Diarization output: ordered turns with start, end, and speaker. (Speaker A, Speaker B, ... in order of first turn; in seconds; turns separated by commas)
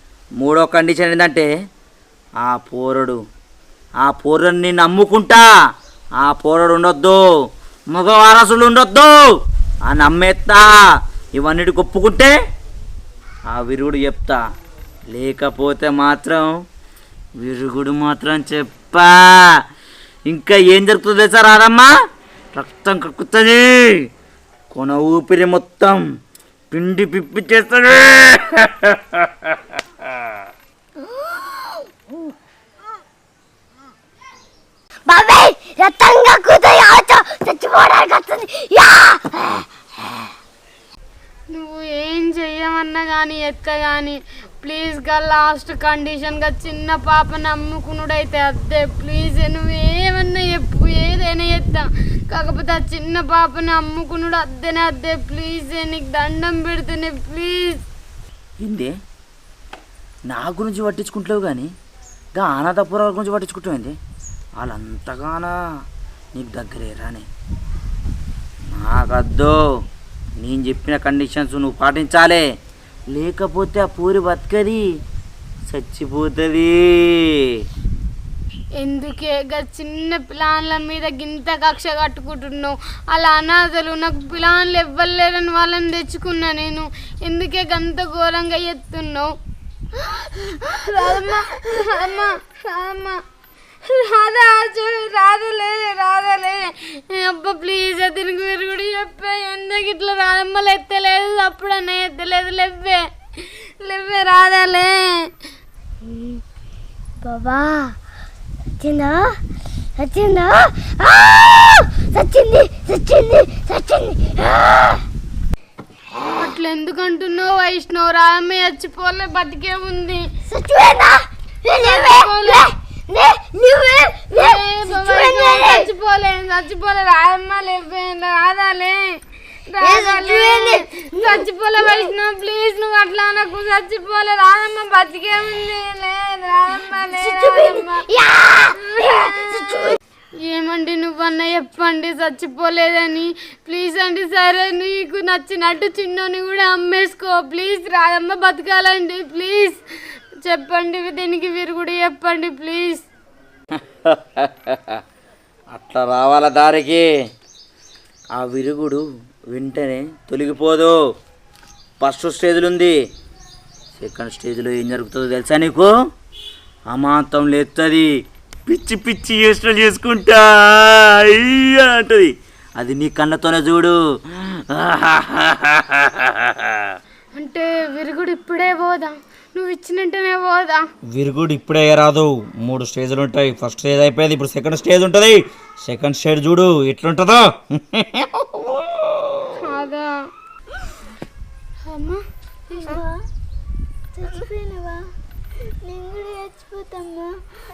Speaker A: 0.4-1.5, Speaker A: 2.4-3.2, Speaker A: 4.0-5.5, Speaker A: 6.2-7.2, Speaker A: 7.9-9.2, Speaker A: 9.9-10.7, Speaker A: 11.3-12.3, Speaker A: 13.5-14.4, Speaker A: 15.1-16.5, Speaker A: 17.4-19.6, Speaker A: 20.3-21.9, Speaker A: 22.6-24.0, Speaker A: 24.7-26.0, Speaker A: 26.7-29.8, Speaker B: 31.3-31.6, Speaker B: 35.1-39.7, Speaker C: 41.5-57.8, Speaker A: 58.6-58.9, Speaker A: 60.3-61.7, Speaker A: 62.4-64.0, Speaker A: 64.6-65.5, Speaker A: 66.3-67.3, Speaker A: 68.7-69.6, Speaker A: 70.4-72.4, Speaker A: 73.1-74.8, Speaker A: 75.7-77.6, Speaker C: 78.8-89.3, Speaker C: 90.4-93.2, Speaker C: 93.8-105.3, Speaker B: 106.0-106.4, Speaker B: 107.2-108.0, Speaker B: 108.8-109.3, Speaker B: 110.0-115.0, Speaker C: 116.3-120.2, Speaker B: 120.5-125.9, Speaker C: 121.7-122.7, Speaker C: 124.4-129.2, Speaker C: 129.7-138.0, Speaker B: 129.8-132.1, Speaker B: 137.2-140.0, Speaker C: 139.0-139.6, Speaker C: 140.4-149.8, Speaker C: 150.4-153.1, Speaker A: 153.7-155.0, Speaker A: 155.7-157.1, Speaker A: 158.4-160.9, Speaker A: 162.0-162.9, Speaker A: 164.0-165.9, Speaker A: 166.9-168.1, Speaker A: 168.7-177.0, Speaker C: 177.4-180.8, Speaker A: 181.1-189.6, Speaker C: 189.6-190.1, Speaker C: 191.8-193.0, Speaker B: 192.9-193.2, Speaker B: 194.2-195.0, Speaker B: 195.8-197.3